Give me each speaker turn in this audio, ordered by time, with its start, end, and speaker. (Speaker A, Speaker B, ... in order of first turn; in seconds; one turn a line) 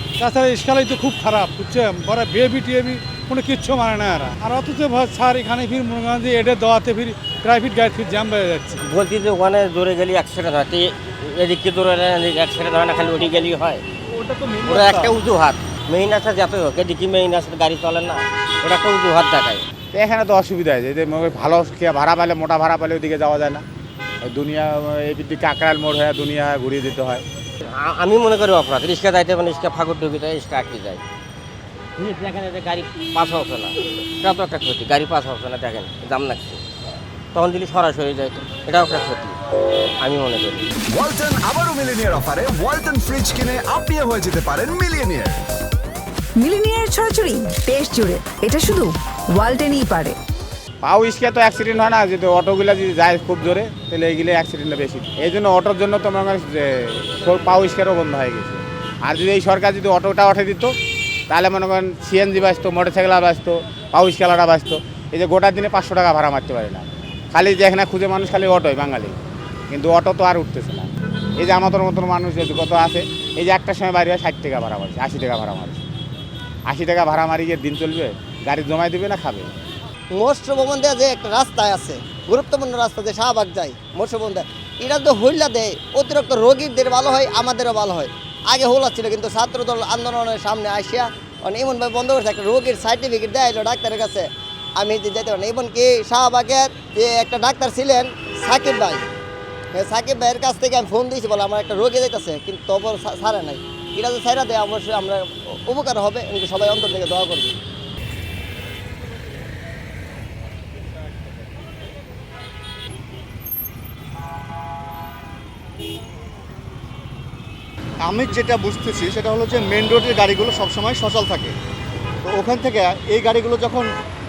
Speaker A: 0.2-8.8
Speaker B: 8.8-13.8
Speaker A: 14.2-15.1
Speaker B: 14.6-19.6
Speaker C: 19.9-23.6
Speaker C: 24.2-27.2
Speaker B: 27.7-31.0
Speaker B: 32.0-36.6
Speaker B: 37.3-39.4
Speaker B: 40.0-40.7
Speaker D: 40.9-45.5
Speaker E: 46.4-50.2
Speaker C: 50.8-58.6
Speaker C: 59.5-60.7
Speaker C: 61.3-66.8
Speaker C: 67.3-69.1
Speaker C: 69.7-70.9
Speaker C: 71.4-75.8
Speaker C: 76.7-79.5
Speaker F: 80.1-99.1
Speaker F: 99.7-107.5
Speaker G: 118.0-121.5
Speaker G: 122.2-123.9